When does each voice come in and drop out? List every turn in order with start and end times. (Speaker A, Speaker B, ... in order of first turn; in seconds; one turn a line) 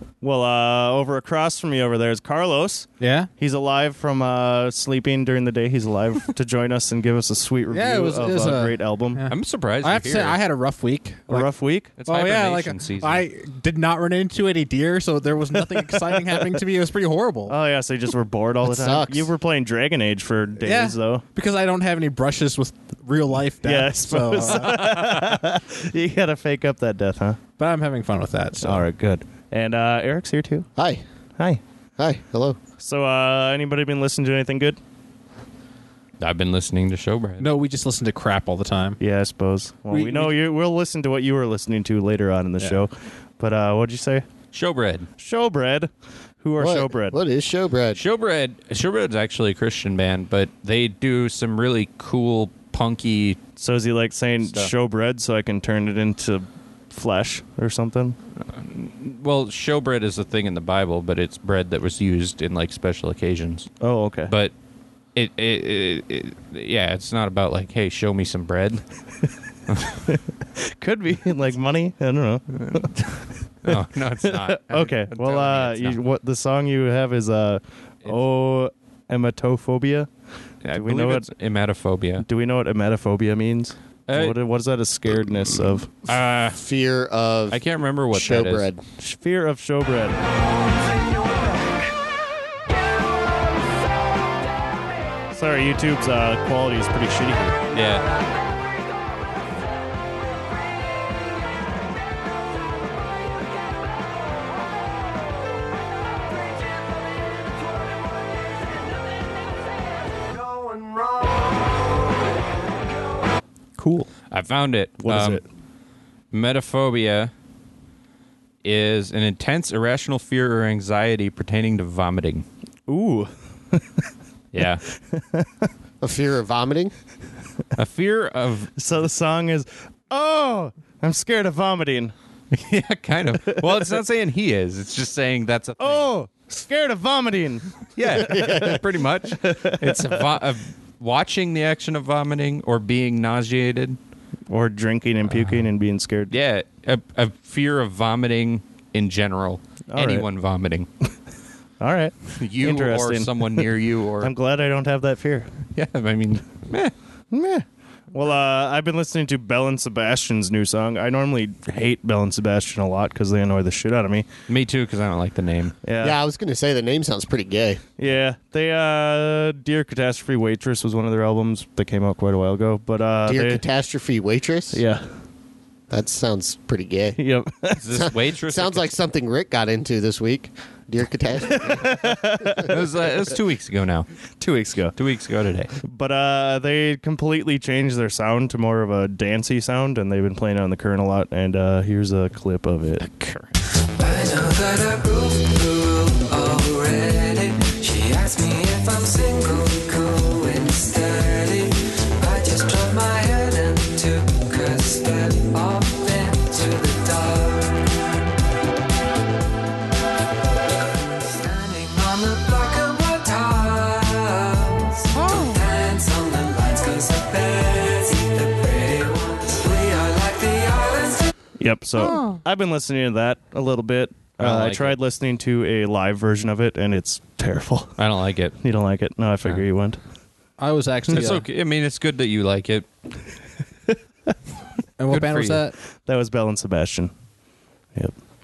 Speaker A: 0.2-9.2
Speaker B: 3.0-3.3
Speaker B: 7.7-11.5
Speaker C: 9.3-10.4
Speaker A: 11.3-11.9
Speaker C: 12.0-13.2
Speaker B: 12.1-17.5
Speaker A: 17.5-21.2
Speaker D: 18.6-19.3
Speaker B: 20.6-24.8
Speaker A: 23.6-27.4
Speaker C: 24.6-25.2
Speaker B: 27.6-28.9
Speaker A: 28.6-30.7
Speaker D: 30.8-31.0
Speaker D: 32.0-32.6
Speaker A: 32.8-34.8
Speaker C: 36.2-37.5
Speaker B: 37.4-39.0
Speaker A: 39.0-44.2
Speaker B: 39.9-40.4
Speaker C: 44.5-45.1
Speaker A: 45.2-45.9
Speaker A: 46.4-47.1
Speaker D: 46.6-48.0
Speaker C: 47.9-53.4
Speaker A: 53.6-58.1
Speaker C: 54.4-54.7
Speaker C: 58.5-63.7
Speaker A: 63.8-64.3
Speaker C: 64.3-64.5
Speaker C: 65.1-68.8
Speaker C: 69.7-70.0
Speaker A: 70.6-72.9
Speaker C: 72.7-73.1
Speaker C: 73.6-76.0
Speaker A: 73.7-80.1
Speaker C: 80.6-82.2
Speaker A: 80.7-81.3
Speaker A: 82.2-86.0
Speaker C: 84.1-84.4
Speaker C: 86.0-86.6
Speaker D: 86.5-88.8
Speaker C: 87.5-88.7
Speaker A: 89.0-90.2
Speaker A: 95.3-97.6
Speaker C: 97.7-98.1
Speaker C: 114.1-115.4
Speaker A: 115.0-115.4
Speaker C: 116.3-117.3
Speaker C: 118.6-122.5
Speaker A: 122.9-124.0
Speaker C: 124.5-124.8
Speaker A: 125.1-125.5
Speaker D: 126.0-126.9
Speaker C: 127.8-128.7
Speaker A: 128.8-132.1
Speaker C: 132.5-136.1
Speaker A: 133.5-133.9
Speaker A: 135.8-138.8
Speaker C: 138.0-144.0
Speaker D: 138.3-138.7
Speaker A: 139.3-140.2
Speaker A: 144.5-146.3
Speaker C: 145.2-145.7
Speaker C: 146.3-150.9
Speaker A: 149.9-150.2
Speaker A: 151.8-153.7
Speaker C: 152.4-154.3
Speaker A: 154.2-155.5
Speaker C: 155.7-156.9
Speaker A: 157.3-164.3
Speaker C: 164.5-165.7
Speaker A: 165.8-166.2
Speaker D: 166.0-167.8
Speaker A: 168.0-173.6
Speaker D: 173.2-174.8
Speaker A: 174.7-175.1
Speaker D: 175.9-177.2
Speaker A: 177.2-177.8
Speaker C: 177.7-178.9
Speaker D: 178.0-182.0
Speaker A: 181.5-182.8
Speaker C: 182.7-184.1
Speaker A: 184.4-184.9
Speaker C: 184.9-185.7
Speaker A: 185.8-193.0
Speaker C: 193.0-193.5
Speaker E: 193.9-208.2
Speaker E: 210.9-221.3
Speaker B: 215.2-215.5
Speaker A: 221.6-227.9
Speaker C: 224.4-225.0
Speaker C: 228.0-228.6
Speaker A: 228.6-230.0
Speaker B: 230.6-231.4
Speaker C: 231.1-232.8
Speaker B: 235.0-235.7
Speaker C: 235.1-235.6
Speaker A: 236.1-237.1